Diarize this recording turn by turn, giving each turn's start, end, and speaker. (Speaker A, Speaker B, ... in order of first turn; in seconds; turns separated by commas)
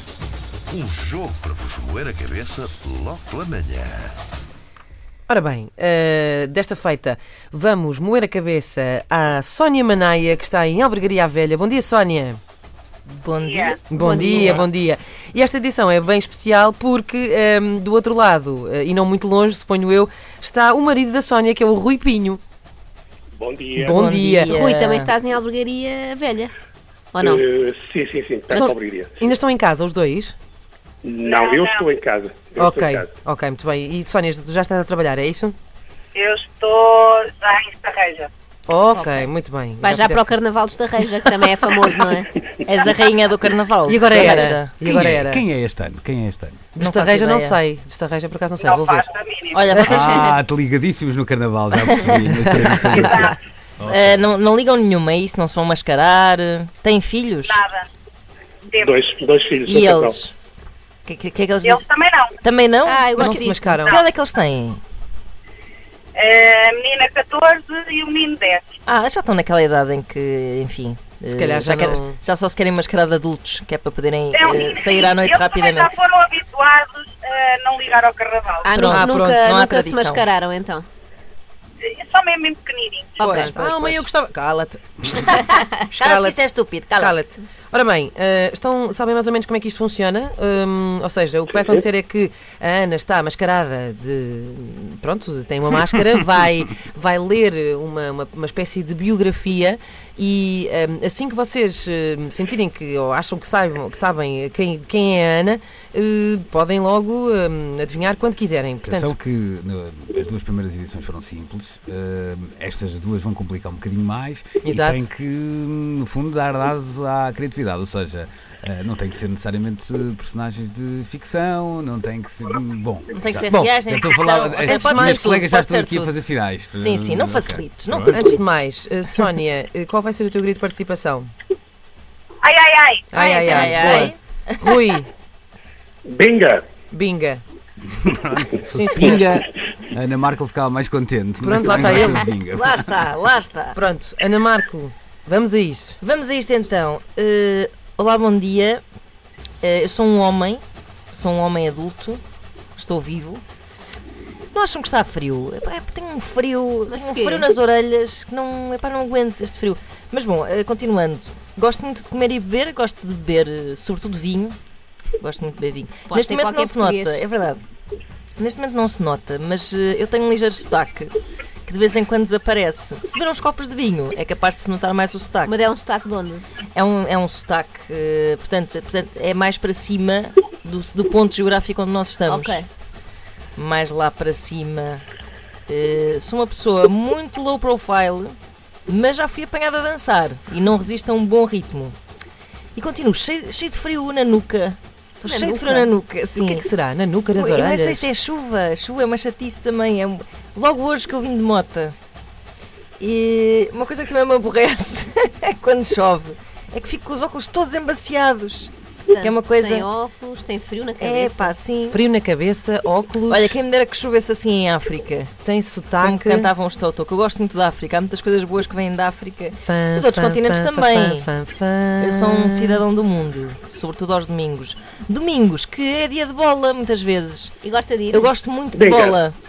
Speaker A: 0.7-4.2, Speaker B: 5.3-12.4, Speaker C: 13.1-14.7, Speaker D: 13.4-13.9, Speaker B: 13.9-22.4, Speaker E: 14.0-14.6, Speaker F: 23.4-24.1, Speaker C: 23.8-25.1, Speaker B: 23.8-24.6, Speaker E: 24.4-26.5, Speaker E: 27.1-27.4, Speaker F: 27.2-29.2, Speaker B: 28.5-30.4, Speaker F: 31.0-33.1, Speaker D: 31.2-31.9, Speaker B: 32.6-35.6, Speaker D: 36.1-38.3, Speaker B: 38.7-40.3, Speaker E: 39.0-42.4, Speaker C: 42.6-44.7, Speaker B: 43.9-45.4, Speaker G: 44.8-46.7, Speaker B: 46.8-49.1, Speaker C: 46.8-47.6, Speaker D: 48.6-49.7, Speaker C: 49.5-50.4, Speaker B: 49.7-50.2, Speaker G: 49.8-54.2, Speaker B: 52.3-53.3, Speaker D: 53.0-53.3, Speaker C: 53.9-57.6, Speaker D: 57.5-57.9, Speaker D: 58.7-59.0, Speaker F: 58.8-60.2, Speaker C: 59.6-60.3, Speaker C: 61.1-61.9, Speaker D: 61.6-62.4, Speaker C: 62.4-64.8, Speaker E: 62.9-63.8, Speaker B: 63.2-64.0, Speaker D: 63.7-64.1, Speaker D: 66.2-68.7, Speaker C: 68.9-76.0, Speaker B: 71.3-72.2, Speaker D: 74.3-78.8, Speaker E: 78.6-80.9, Speaker C: 78.7-80.3, Speaker B: 78.8-79.4, Speaker D: 81.8-83.4, Speaker E: 83.2-83.5, Speaker B: 83.2-86.4, Speaker C: 83.7-84.0, Speaker C: 86.0-87.2, Speaker B: 87.0-109.2, Speaker G: 108.8-128.5, Speaker B: 114.6-115.1, Speaker C: 123.1-128.6, Speaker B: 123.5-123.8, Speaker B: 124.6-125.3, Speaker B: 128.1-131.3, Speaker D: 132.4-133.1, Speaker B: 133.1-135.1, Speaker E: 133.2-134.1, Speaker C: 133.2-134.8, Speaker F: 136.1-136.7, Speaker B: 136.9-137.4, Speaker G: 137.9-143.1, Speaker B: 138.7-139.4, Speaker B: 141.4-142.3, Speaker C: 142.5-143.8, Speaker B: 143.7-146.0, Speaker C: 146.0-148.8, Speaker C: 149.6-152.2, Speaker C: 152.8-153.4, Speaker C: 154.5-164.6, Speaker E: 156.9-157.5, Speaker C: 165.2-167.7, Speaker E: 166.0-167.3, Speaker C: 168.4-171.1, Speaker C: 171.7-175.6, Speaker E: 175.4-176.5, Speaker C: 176.7-182.6, Speaker E: 182.3-182.7, Speaker C: 183.6-185.0, Speaker C: 185.7-188.3, Speaker C: 188.9-192.0, Speaker C: 192.8-196.7, Speaker E: 195.3-195.6, Speaker B: 195.3-198.1, Speaker C: 197.3-201.9, Speaker C: 203.0-209.9, Speaker E: 209.1-211.5, Speaker C: 211.0-212.0, Speaker B: 211.9-213.6, Speaker C: 213.3-215.3, Speaker B: 215.4-216.5, Speaker C: 216.0-221.3, Speaker B: 219.6-222.8, Speaker C: 222.0-227.6, Speaker E: 227.6-228.3, Speaker C: 228.1-229.3, Speaker F: 228.7-229.2